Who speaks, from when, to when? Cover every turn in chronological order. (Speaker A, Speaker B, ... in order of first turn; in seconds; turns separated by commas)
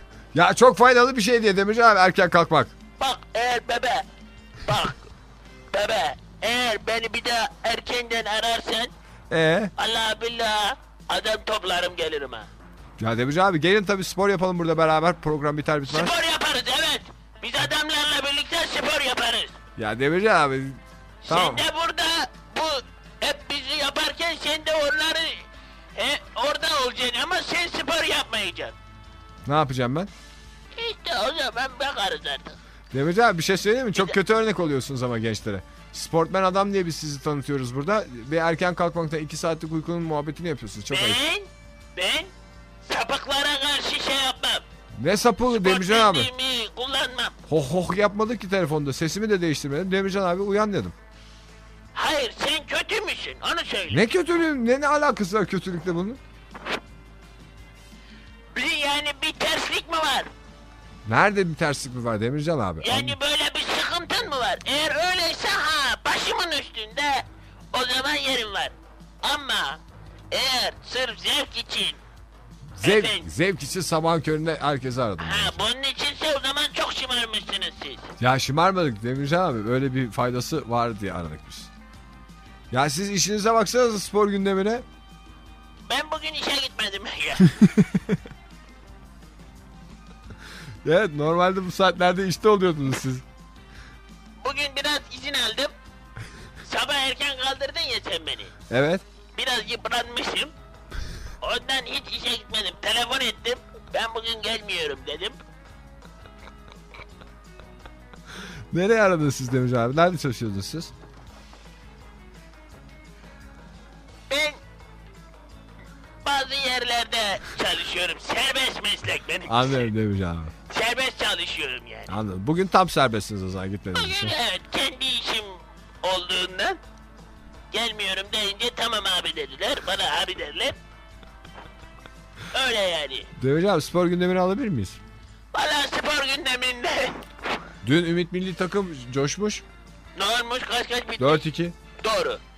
Speaker A: 0.3-2.7, Speaker B: 3.0-4.1, Speaker B: 4.7-5.0, Speaker B: 5.7-8.9, Speaker A: 9.3-9.7, Speaker B: 9.8-12.5, Speaker A: 13.0-16.1, Speaker B: 15.9-19.6, Speaker A: 19.8-21.6, Speaker B: 21.2-28.8, Speaker A: 29.5-30.1, Speaker B: 30.8-32.5, Speaker A: 32.9-41.2, Speaker B: 40.9-42.3, Speaker B: 42.9-44.6, Speaker A: 45.0-46.3, Speaker B: 45.5-47.4, Speaker A: 47.5-51.0, Speaker B: 51.9-54.1, Speaker A: 53.9-56.2, Speaker B: 58.5-60.3, Speaker A: 61.1-63.2, Speaker B: 62.8-72.0, Speaker A: 72.8-75.6, Speaker B: 72.8-73.3, Speaker B: 75.2-78.1, Speaker A: 78.2-81.7, Speaker A: 82.7-84.8, Speaker B: 85.9-87.5, Speaker A: 87.8-88.1, Speaker A: 90.8-93.2, Speaker B: 94.4-95.7, Speaker B: 96.6-98.5, Speaker A: 98.7-99.0, Speaker B: 99.3-100.5, Speaker B: 101.4-105.4, Speaker A: 108.7-110.9, Speaker B: 114.3-114.6, Speaker B: 116.2-119.9, Speaker A: 119.5-120.5, Speaker B: 120.7-122.1, Speaker A: 122.1-124.3, Speaker B: 123.9-126.8, Speaker B: 127.7-130.8, Speaker B: 132.5-133.3, Speaker A: 133.4-135.0, Speaker B: 135.5-137.2, Speaker A: 137.8-139.6, Speaker B: 140.2-141.4, Speaker A: 141.2-141.8, Speaker B: 142.0-142.4